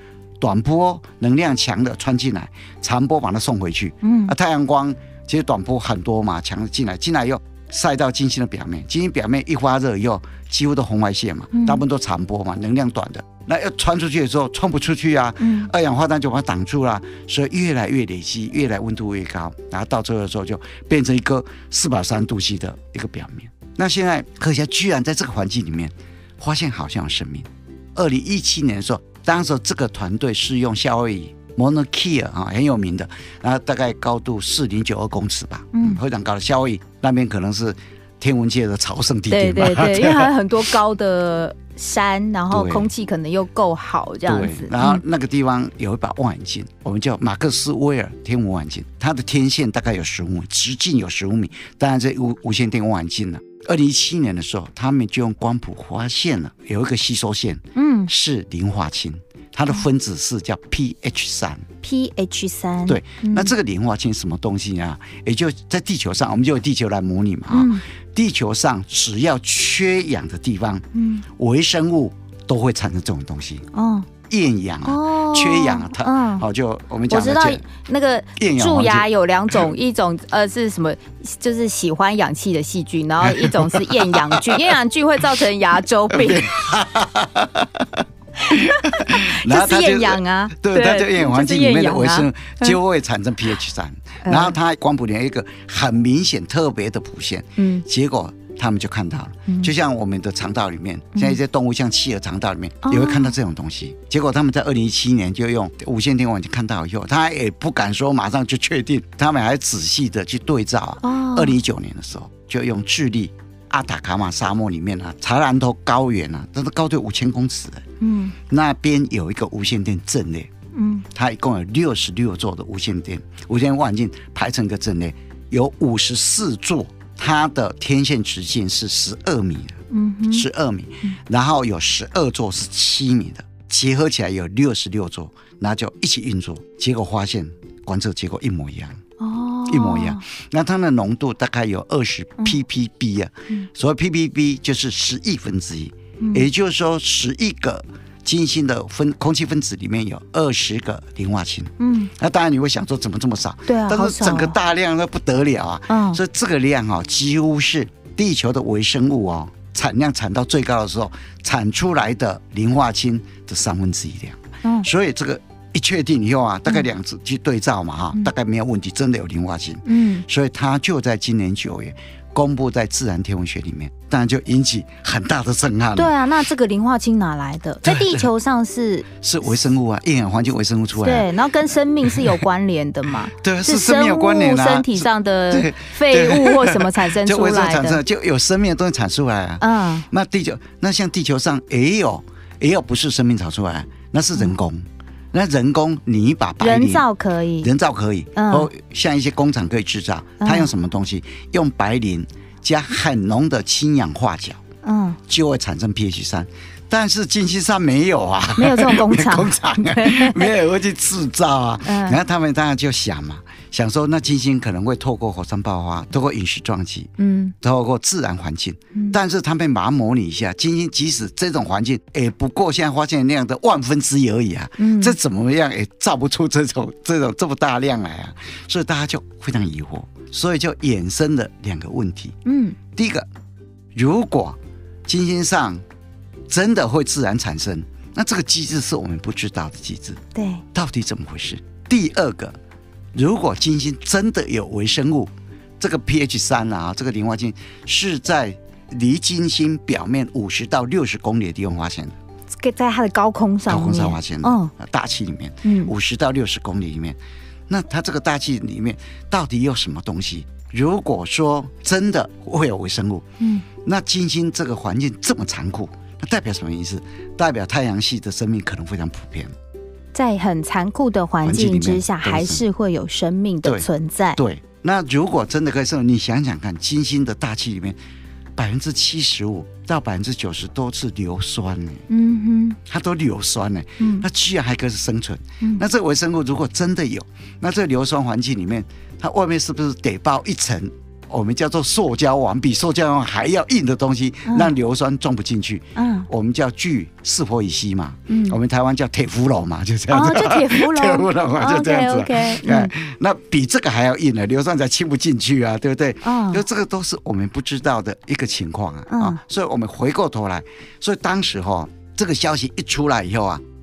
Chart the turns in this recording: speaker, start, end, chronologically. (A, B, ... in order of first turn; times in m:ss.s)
0:00.4-0:40.3 A
0:04.0-0:04.3 B
0:11.5-0:11.8 B
0:15.4-0:15.7 B
0:35.7-0:36.0 B
0:39.3-0:45.0 B
0:42.5-0:42.9 A
0:44.2-1:01.7 A
0:57.8-0:58.1 B
1:01.8-1:03.5 B
1:02.9-1:13.7 A
1:07.5-1:07.8 B
1:10.9-1:11.2 B
1:13.7-1:14.1 B
1:14.2-1:17.6 A
1:14.8-1:16.4 B
1:17.1-1:26.5 B
1:18.4-1:19.1 A
1:23.2-1:24.7 A
1:26.1-1:57.8 A
1:28.5-1:32.8 B
1:34.2-1:34.6 B
1:37.6-1:37.8 B
1:42.8-1:43.4 B
1:51.0-1:51.6 B
1:58.0-1:58.3 B
1:58.5-2:00.5 A
2:00.8-2:01.1 B
2:01.1-2:19.0 A
2:09.9-2:10.4 B
2:19.2-2:20.2 B
2:19.7-2:56.1 A
2:26.2-2:26.4 B
2:31.8-2:32.1 B
2:33.7-2:34.6 B
2:35.9-2:36.2 B
2:49.9-2:50.2 B
2:56.0-2:59.1 B
2:57.8-2:58.3 A
2:59.2-3:01.3 A
3:01.0-3:08.0 B
3:03.4-3:17.1 A
3:09.6-3:10.1 B
3:16.6-3:17.7 B
3:17.6-3:24.6 A
3:18.4-3:18.7 B
3:20.4-3:20.7 B
3:24.8-3:25.2 B
3:25.3-3:52.4 A
3:28.6-3:30.5 B
3:31.8-3:32.2 B
3:37.2-3:37.5 B
3:44.8-3:45.2 B
3:52.4-3:52.8 B
3:52.9-3:53.3 A
3:53.9-3:55.8 A
3:56.5-4:00.2 A
4:00.4-4:00.6 B
4:00.7-4:02.6 A
4:03.1-4:12.2 A
4:12.5-4:14.7 B
4:13.7-4:17.2 A
4:15.6-4:15.9 B
4:17.7-4:23.2 A
4:23.4-4:23.6 B
4:23.8-4:29.5 A
4:30.1-4:34.4 B
4:31.4-4:32.6 A
4:33.6-4:38.0 A
4:38.6-4:42.1 A
4:42.1-4:42.8 B
4:42.9-5:13.6 A
4:44.0-4:44.2 B
4:56.0-4:56.3 B
4:58.3-4:58.6 B
5:00.1-5:02.9 B
5:06.2-5:06.6 B
5:09.1-5:09.4 B